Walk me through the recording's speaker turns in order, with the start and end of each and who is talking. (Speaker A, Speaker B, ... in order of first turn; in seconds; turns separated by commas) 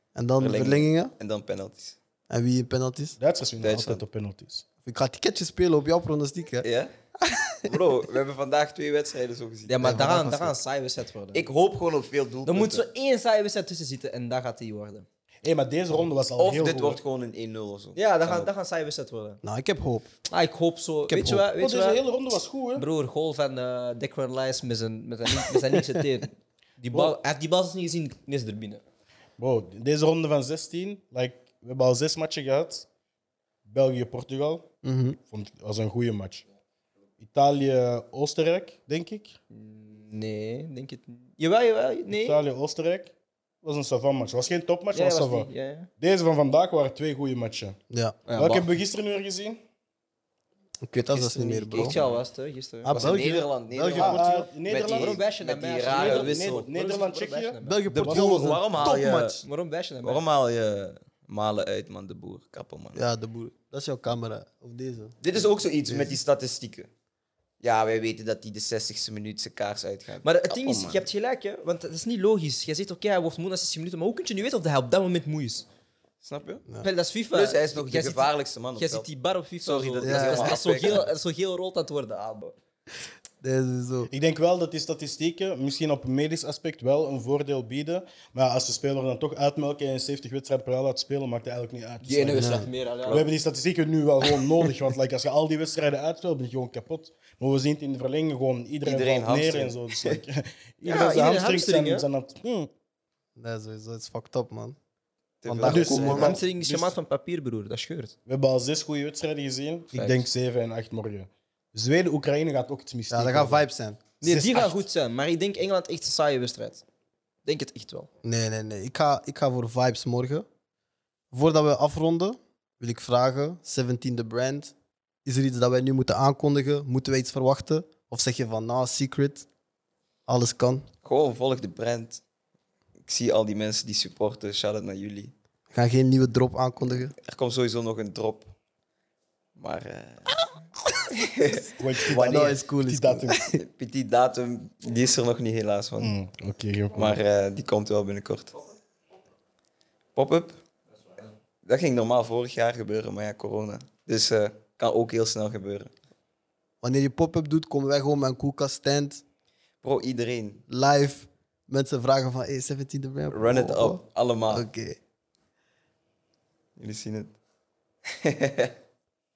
Speaker A: 0.1-1.1, Speaker B: 0.4-2.0, Speaker A: 2.3-3.2, Speaker C: 3.2-4.7, Speaker B: 3.6-4.0, Speaker A: 4.8-6.7, Speaker B: 6.6-6.9, Speaker A: 7.2-7.7, Speaker B: 7.7-9.8, Speaker D: 9.7-11.5, Speaker A: 9.8-10.6, Speaker B: 11.3-12.8, Speaker D: 12.5-15.1, Speaker C: 15.4-17.0, Speaker B: 16.4-18.5, Speaker D: 18.0-19.4, Speaker A: 19.4-20.1, Speaker D: 20.3-22.0, Speaker A: 21.1-21.4, Speaker C: 21.4-22.9, Speaker D: 22.8-28.8, Speaker C: 29.4-32.9, Speaker C: 33.6-34.7, Speaker A: 34.8-35.2, Speaker C: 35.3-36.4, Speaker C: 37.2-39.4, Speaker D: 39.5-42.4, Speaker C: 42.1-47.8, Speaker D: 44.9-45.9, Speaker A: 47.9-48.2, Speaker D: 48.3-48.7, Speaker C: 48.4-49.6, Speaker A: 50.8-52.0, Speaker D: 51.1-53.0, Speaker B: 51.7-52.2, Speaker A: 52.8-54.5, Speaker B: 52.9-56.7, Speaker C: 54.0-55.2, Speaker D: 54.9-57.9, Speaker C: 55.9-58.6, Speaker A: 57.6-59.4, Speaker B: 57.9-59.4, Speaker D: 59.4-60.2, Speaker B: 60.0-63.0, Speaker A: 62.9-65.2, Speaker B: 65.2-66.9, Speaker A: 65.9-66.2, Speaker B: 67.6-71.0, Speaker D: 70.2-75.7, Speaker B: 76.2-76.7, Speaker D: 76.8-82.5, Speaker B: 77.3-79.1, Speaker B: 79.6-81.1, Speaker A: 80.0-80.6, Speaker A: 83.4-84.1, Speaker C: 84.1-102.7, Speaker D: 92.0-93.2, Speaker A: 92.3-92.7, Speaker B: 98.8-100.2, Speaker D: 100.8-102.1, Speaker A: 103.4-104.8, Speaker B: 105.4-106.4, Speaker A: 105.5-106.4, Speaker C: 105.6-107.0, Speaker D: 106.0-108.1, Speaker C: 108.3-113.7, Speaker D: 109.9-110.2, Speaker A: 113.1-114.0, Speaker D: 114.2-116.8, Speaker C: 114.2-114.9, Speaker D: 117.5-118.1, Speaker A: 118.2-120.5, Speaker A: 121.3-124.7, Speaker A: 125.2-129.5, Speaker A: 130.3-130.9, Speaker B: 131.0-132.2, Speaker B: 133.1-135.3, Speaker A: 135.7-137.1, Speaker B: 137.2-138.5, Speaker B: 139.6-140.4, Speaker B: 141.1-142.6, Speaker C: 141.8-143.4, Speaker A: 142.1-143.6, Speaker B: 143.6-146.2, Speaker C: 146.0-147.2, Speaker B: 146.9-148.6, Speaker B: 150.2-150.6, Speaker B: 151.6-155.9, Speaker A: 156.8-159.2, Speaker B: 159.8-160.6, Speaker A: 160.7-165.0, Speaker B: 163.3-164.7, Speaker B: 166.8-167.3, Speaker B: 168.2-168.8